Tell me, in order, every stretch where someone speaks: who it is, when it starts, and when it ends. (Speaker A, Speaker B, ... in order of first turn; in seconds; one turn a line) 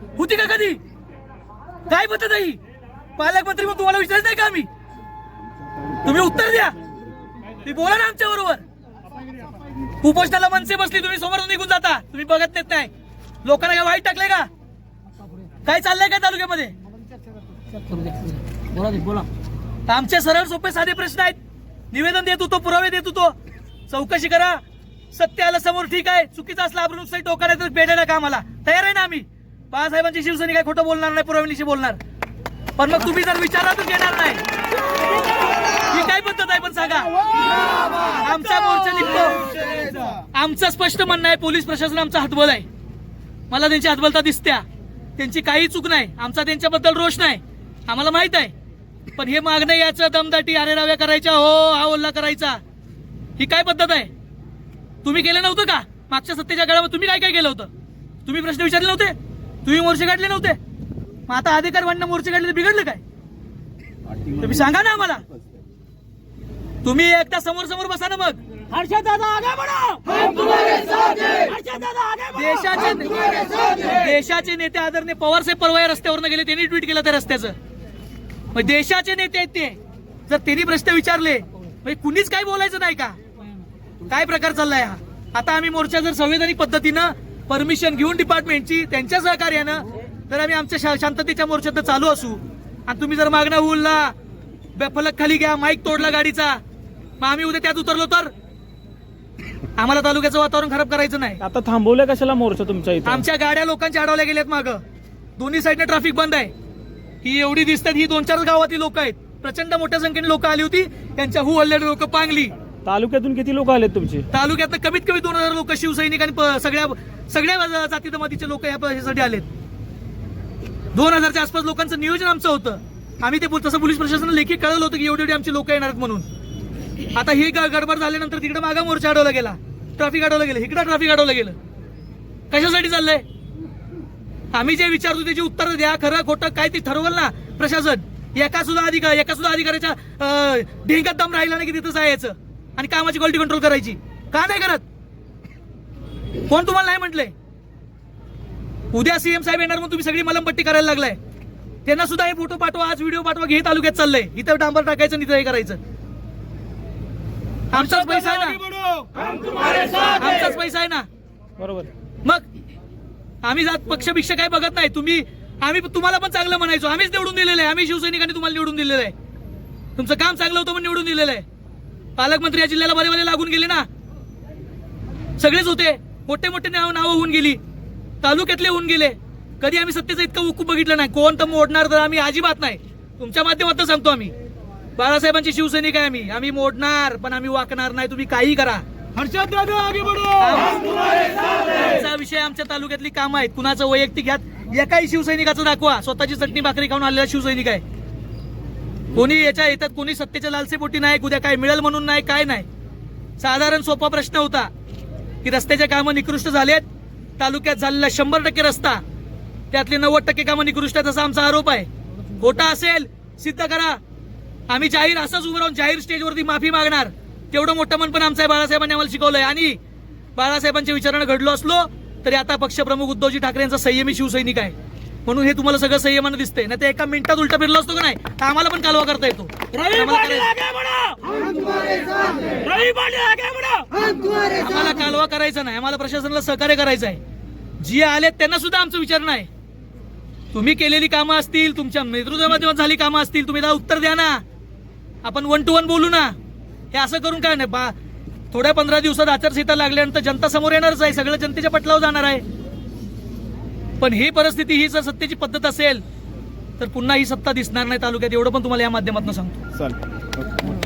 Speaker A: 0.2-0.8
Speaker A: 1.9-2.6
Speaker A: 3.2-4.7
Speaker A: 6.0-6.8
Speaker A: 7.6-8.6
Speaker A: 10.0-12.9
Speaker A: 13.4-14.5
Speaker A: 15.7-16.8
Speaker B: 18.0-19.3
Speaker A: 19.9-21.4
Speaker A: 21.9-23.4
Speaker A: 23.9-24.6
Speaker A: 25.1-32.0
Speaker A: 32.8-34.4
Speaker A: 35.9-37.1
Speaker A: 38.2-39.5
Speaker A: 40.3-42.6
Speaker A: 43.5-44.6
Speaker A: 45.2-48.5
Speaker A: 49.1-52.6
Speaker A: 53.4-54.1
Speaker A: 55.0-57.7
Speaker A: 58.3-60.6
Speaker A: 61.3-63.0
Speaker A: 64.4-65.2
Speaker A: 66.8-68.4
Speaker C: 68.7-72.5
Speaker A: 72.3-77.5
Speaker A: 78.5-83.2
Speaker A: 84.1-94.1
Speaker A: 94.8-96.6
Speaker A: 97.2-98.3
Speaker A: 99.8-101.4
Speaker C: 101.4-103.2
Speaker A: 103.1-104.8
Speaker A: 105.4-106.5
Speaker A: 107.2-112.5
Speaker C: 112.8-114.3
Speaker A: 114.3-119.5
Speaker A: 120.9-126.2
Speaker A: 127.2-131.6
Speaker A: 132.5-133.2
Speaker A: 134.5-144.8
Speaker A: 146.5-147.3
Speaker A: 148.9-151.2
Speaker A: 151.9-155.8
Speaker A: 157.7-158.6
Speaker C: 157.8-159.2
Speaker A: 160.2-161.1
Speaker C: 161.6-161.9
Speaker A: 163.4-169.1
Speaker A: 170.0-171.4
Speaker A: 172.2-173.9
Speaker A: 175.4-177.6
Speaker A: 178.2-184.3
Speaker A: 185.0-188.8
Speaker B: 189.2-190.7
Speaker A: 190.4-190.9
Speaker A: 191.5-197.8
Speaker A: 199.1-202.7
Speaker A: 203.4-204.7
Speaker A: 205.4-206.9
Speaker A: 207.4-209.0
Speaker A: 209.7-211.9
Speaker A: 212.4-214.0
Speaker A: 214.7-219.8
Speaker A: 220.4-224.8
Speaker A: 225.3-230.5
Speaker C: 229.8-231.3
Speaker B: 231.8-232.2
Speaker C: 232.5-233.9
Speaker A: 234.6-237.2
Speaker A: 237.8-239.5
Speaker A: 240.5-244.4
Speaker A: 245.2-246.3
Speaker A: 246.9-247.9
Speaker A: 248.5-252.4
Speaker A: 254.0-256.0
Speaker A: 256.8-259.6